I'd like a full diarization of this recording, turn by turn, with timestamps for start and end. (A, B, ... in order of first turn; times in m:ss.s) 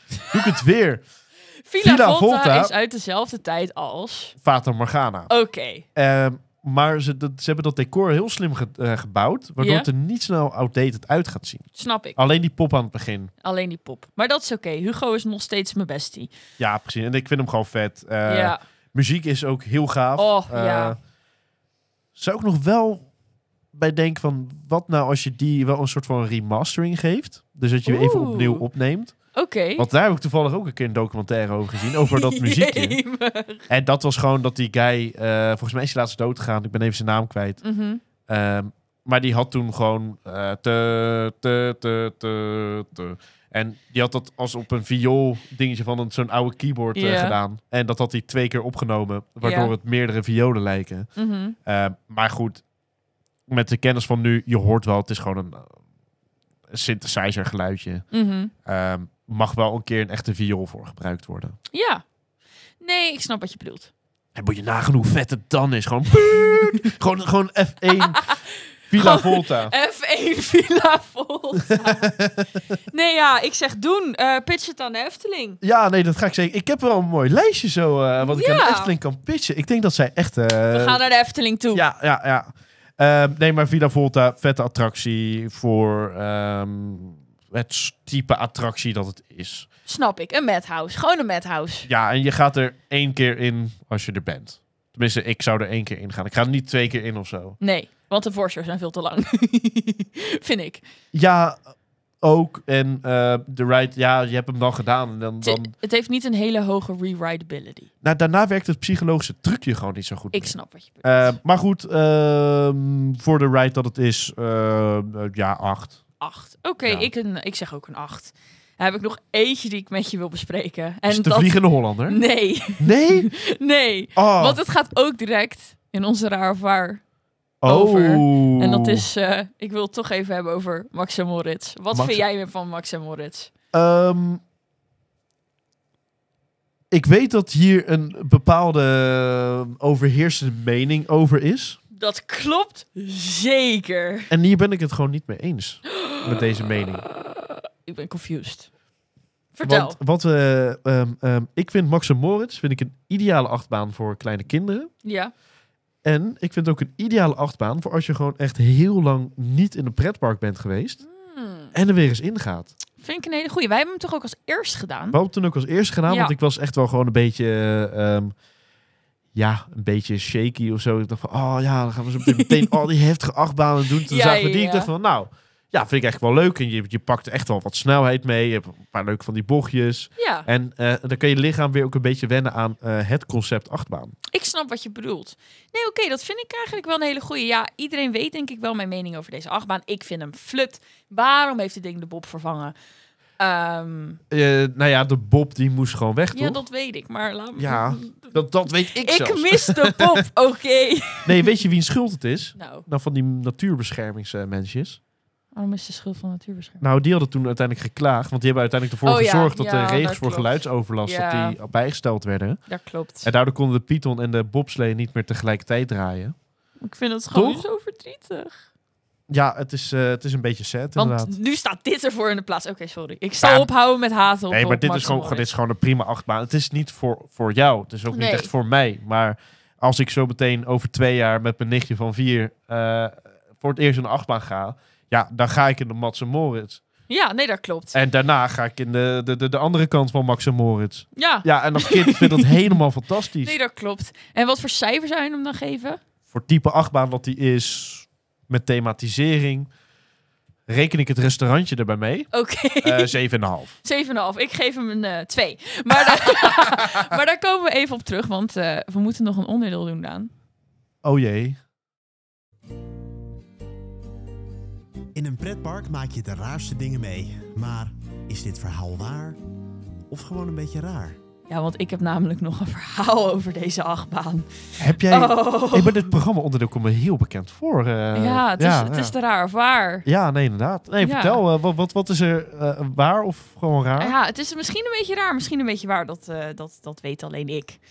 0:00.3-0:01.0 A
0:01.7-0:04.3 B
0:01.8-0:02.7 A
0:04.4-0:05.3 A
0:05.3-0:05.8 B
0:06.0-0:13.3 A
0:09.6-0:09.9 B
0:11.8-0:12.2 B
0:13.4-0:16.3 B
0:16.6-0:21.0 A
0:18.2-0:18.6 B
0:20.2-0:21.0 B
0:22.1-0:23.0 A
0:23.7-0:29.2 A
0:27.8-0:28.6 B
0:29.3-0:29.9 B
0:29.8-0:33.0 A
0:32.1-0:33.6 B
0:33.7-0:37.6 A
0:37.6-0:38.0 B
0:38.3-0:51.1 A
0:46.9-0:47.4 B
0:49.4-0:49.7 B
0:51.2-0:51.6 B
0:51.6-0:52.6 A
0:53.5-0:55.8 A
0:56.7-0:58.0 A
0:58.1-0:58.5 B
0:58.6-1:01.6 A
1:01.7-1:02.0 B
1:02.8-1:03.9 B
1:04.3-1:08.3 A
1:06.4-1:06.8 B
1:07.9-1:12.2 B
1:08.9-1:09.7 A
1:11.7-1:12.5 A
1:12.9-1:15.6 B
1:15.6-1:21.0 A
1:18.2-1:18.9 B
1:20.7-1:21.8 B
1:21.7-1:29.6 A
1:29.9-1:31.9 B
1:31.9-1:37.6 A
1:37.6-1:40.8 B
1:41.1-1:41.6 A
1:42.2-1:45.7 A
1:45.4-1:47.9 B
1:48.0-1:56.0 A
1:50.3-1:51.4 B
1:56.2-2:07.0 B
1:56.8-1:57.1 A
2:01.1-2:02.2 A
2:02.8-2:03.3 A
2:04.2-2:04.6 A
2:07.6-2:09.0 A
2:07.6-2:13.5 B
2:11.9-2:12.2 A
2:13.7-2:14.4 A
2:16.9-2:21.8 A
2:21.9-2:24.3 B
2:24.3-2:27.0 A
2:26.0-2:26.4 B
2:27.0-2:28.7 B
2:29.5-2:30.0 B
2:29.6-2:34.9 A
2:35.0-2:35.3 B
2:36.0-2:41.0 A
2:41.0-2:41.7 B
2:41.7-2:42.7 A
2:43.0-2:45.2 B
2:45.1-2:48.3 A
2:46.1-2:46.3 B
2:49.3-3:04.2 A
2:52.2-2:52.7 B
2:54.0-2:54.9 B
3:00.2-3:00.5 B
3:04.3-3:12.7 B
3:13.4-3:14.2 B
3:14.3-3:16.6 A
3:16.3-3:21.4 B
3:17.6-3:20.2 A
3:21.2-3:25.0 A
3:22.6-3:22.9 B
3:25.5-3:26.8 B
3:26.8-3:32.6 A
3:29.0-3:31.6 B
3:32.7-3:33.3 B
3:33.2-3:36.3 A
3:36.8-3:38.6 B
3:37.3-3:37.6 A
3:39.3-3:41.3 A
3:41.0-3:45.5 B
3:43.4-3:43.7 A
3:44.5-3:56.8 A
3:48.1-3:48.5 B
3:57.1-3:58.0 B
3:57.9-4:03.5 A
4:01.2-4:02.6 B
4:03.4-4:06.0 B
4:06.3-4:09.7 A
4:10.7-4:12.3 A
4:12.3-4:13.1 B
4:12.8-4:13.7 A
4:13.8-4:20.3 B
4:16.0-4:17.0 A
4:21.0-4:21.6 A
4:25.1-4:29.4 C
4:30.1-4:31.2 C
4:31.5-4:36.2 B
4:34.8-4:39.1 A
4:38.1-4:40.0 B
4:40.0-4:44.1 A
4:41.0-4:41.4 B
4:44.0-4:47.8 B